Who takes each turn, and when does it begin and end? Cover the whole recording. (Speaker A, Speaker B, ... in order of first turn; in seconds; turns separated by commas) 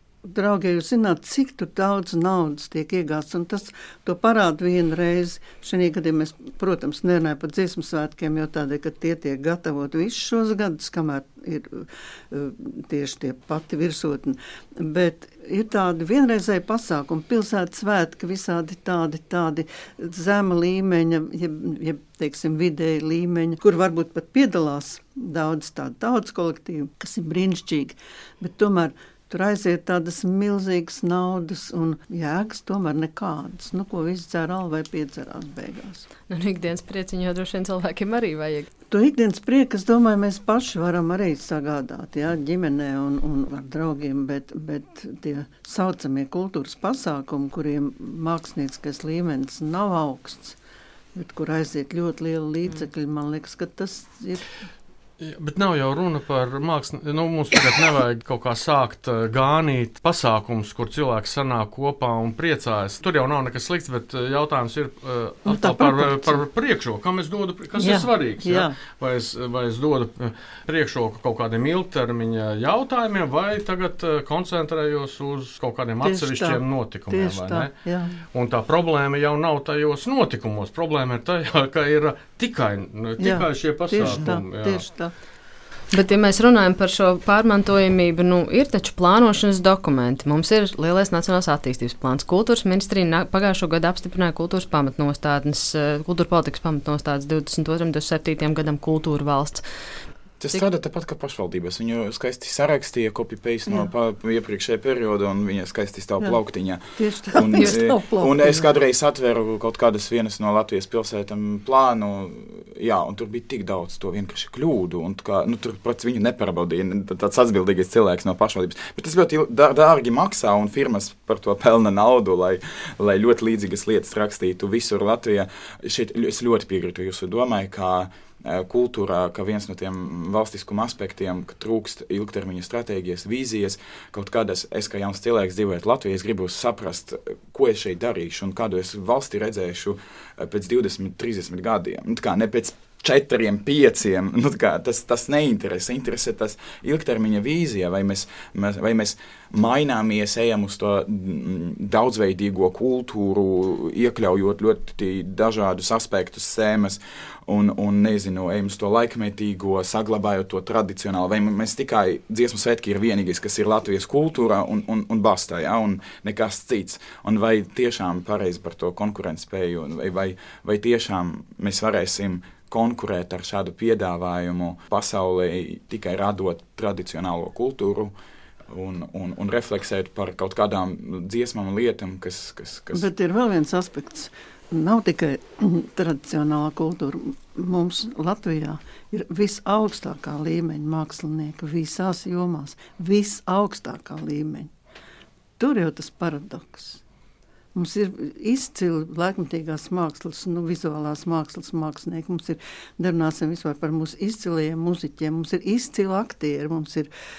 Speaker A: 0.3-36.1, Speaker B: 36.3-38.7, Speaker A: 38.9-50.6, Speaker A: 51.1-54.5, Speaker C: 55.2-77.7, Speaker A: 65.5-66.4, Speaker A: 67.8-68.8, Speaker A: 76.0-78.2, Speaker C: 78.3-84.8, Speaker A: 83.2-85.1, Speaker B: 85.9-99.6, Speaker D: 100.4-178.1, Speaker A: 107.0-108.7, Speaker D: 178.7-183.1, Speaker A: 182.9-194.7, Speaker A: 195.6-197.0, Speaker A: 197.7-207.1